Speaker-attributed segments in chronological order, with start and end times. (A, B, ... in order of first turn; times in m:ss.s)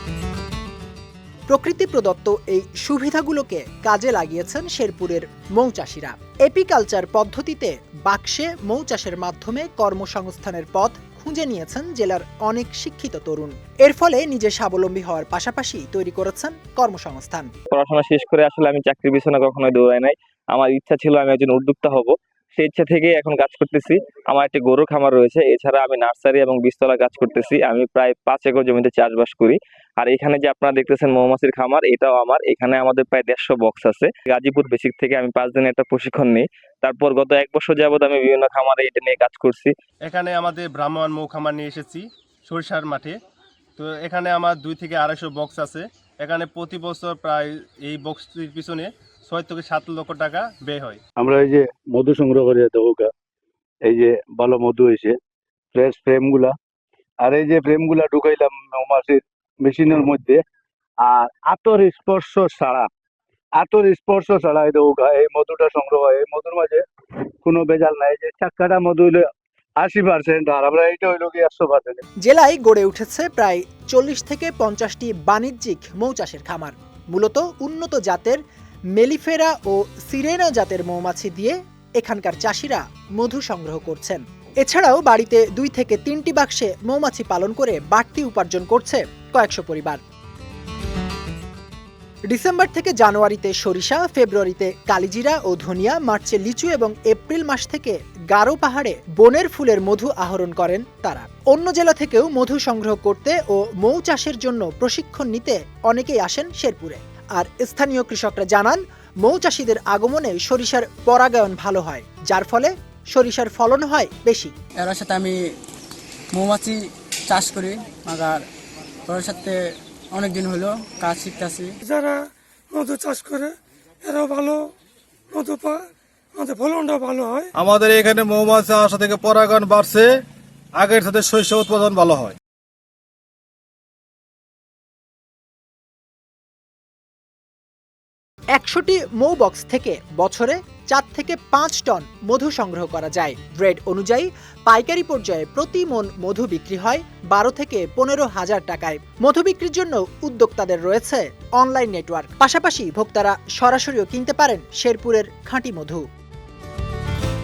0:01.5-0:17.5 A
0:17.7-0:39.7 B
0:40.0-0:43.2 C
0:43.8-0:51.0 C
0:51.2-0:53.1 D
0:53.8-0:55.2 D
0:55.7-0:56.5 D
0:57.2-1:00.4 D
1:01.0-1:02.9 D
1:03.6-1:06.8 D
1:07.4-1:09.3 D
1:09.8-1:12.0 D
1:12.2-1:18.4 A
1:18.9-1:30.0 A
1:32.3-1:54.5 A
1:54.8-1:55.3 E
1:56.3-1:56.7 E
1:57.3-1:57.7 E
1:57.7-1:58.0 F
1:59.1-1:59.5 E
2:00.1-2:01.5 E
2:00.9-2:04.7 F
2:05.3-2:07.5 F
2:07.6-2:10.1 G
2:07.7-2:08.1 E
2:08.7-2:10.1 E
2:10.8-2:12.3 E
2:10.8-2:12.3 G
2:18.5-2:36.0 A